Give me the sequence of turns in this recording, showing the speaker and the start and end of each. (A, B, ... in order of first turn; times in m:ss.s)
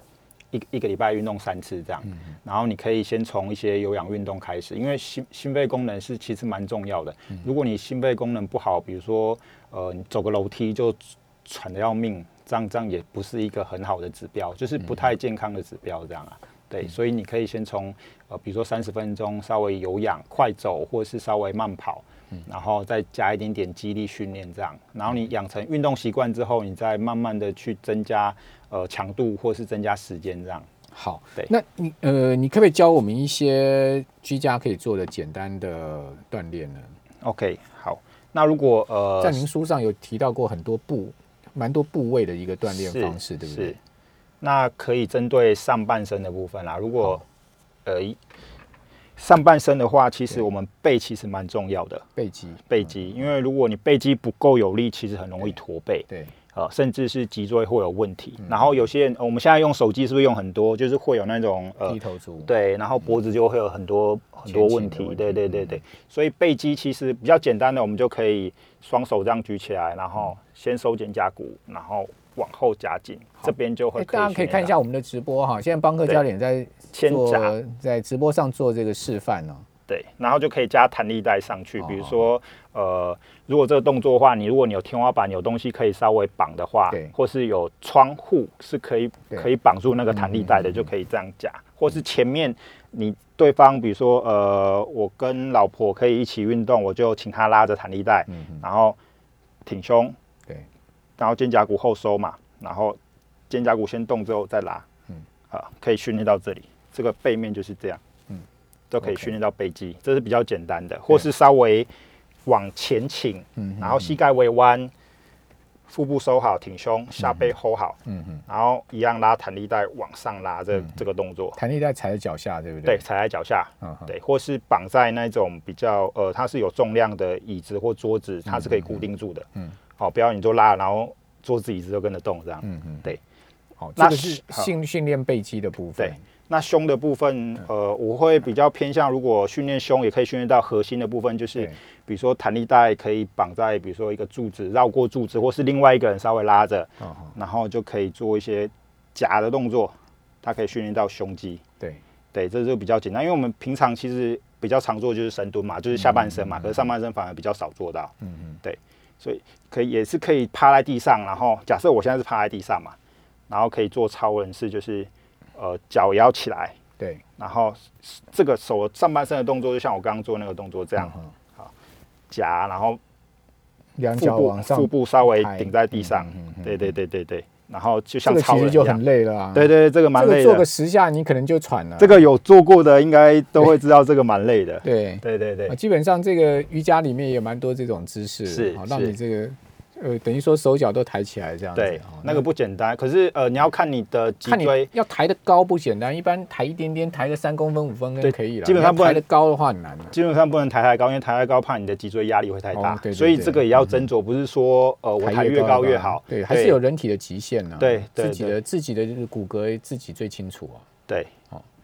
0:00.5-0:30.7 A
0:30.9-0:36.9 B
0:37.2-0:39.5 A
0:39.2-0:43.8 B
0:42.7-0:43.8 A
0:44.4-0:47.2 A
0:47.9-0:48.2 A
0:49.2-0:52.0 A
0:52.2-0:53.2 B
0:52.7-1:14.8 A
0:56.1-0:56.4 B
1:01.8-1:02.5 B
1:04.5-1:05.5 B
1:13.4-1:19.6 B
1:16.9-1:17.5 A
1:19.9-1:39.0 A
1:21.9-1:22.2 B
1:38.3-1:38.6 B
1:39.6-1:40.1 A
1:41.2-1:43.0 A
1:43.5-1:44.8 A
1:45.5-1:48.0 A
1:48.9-1:51.9 A
1:49.0-1:49.3 B
1:52.4-1:54.9 A
1:53.6-1:54.1 B
1:55.9-2:01.6 A
1:58.1-1:58.4 B
2:01.5-2:03.0 B
2:02.8-2:09.5 A
2:03.8-2:04.1 B
2:08.5-2:09.0 B
2:10.0-2:13.2 A
2:12.6-2:13.1 B
2:13.8-2:16.2 B
2:14.0-2:14.7 A
2:16.0-2:31.6 A
2:27.0-2:27.3 B
2:32.3-2:43.0 A
2:38.2-2:38.6 B
2:43.5-2:46.8 A
2:47.4-2:51.7 A
2:51.0-2:51.3 B
2:52.3-2:53.0 A
2:54.0-2:56.8 B
2:54.2-2:59.0 A
2:58.2-3:02.2 B
2:59.5-3:00.7 A
3:02.0-3:05.8 A
3:04.8-3:12.4 B
3:08.5-3:09.2 A
3:11.8-3:14.9 A
3:14.5-3:20.1 B
3:18.2-3:19.2 A
3:20.1-3:26.8 A
3:22.7-3:24.0 B
3:25.2-3:30.8 B
3:27.8-3:28.6 A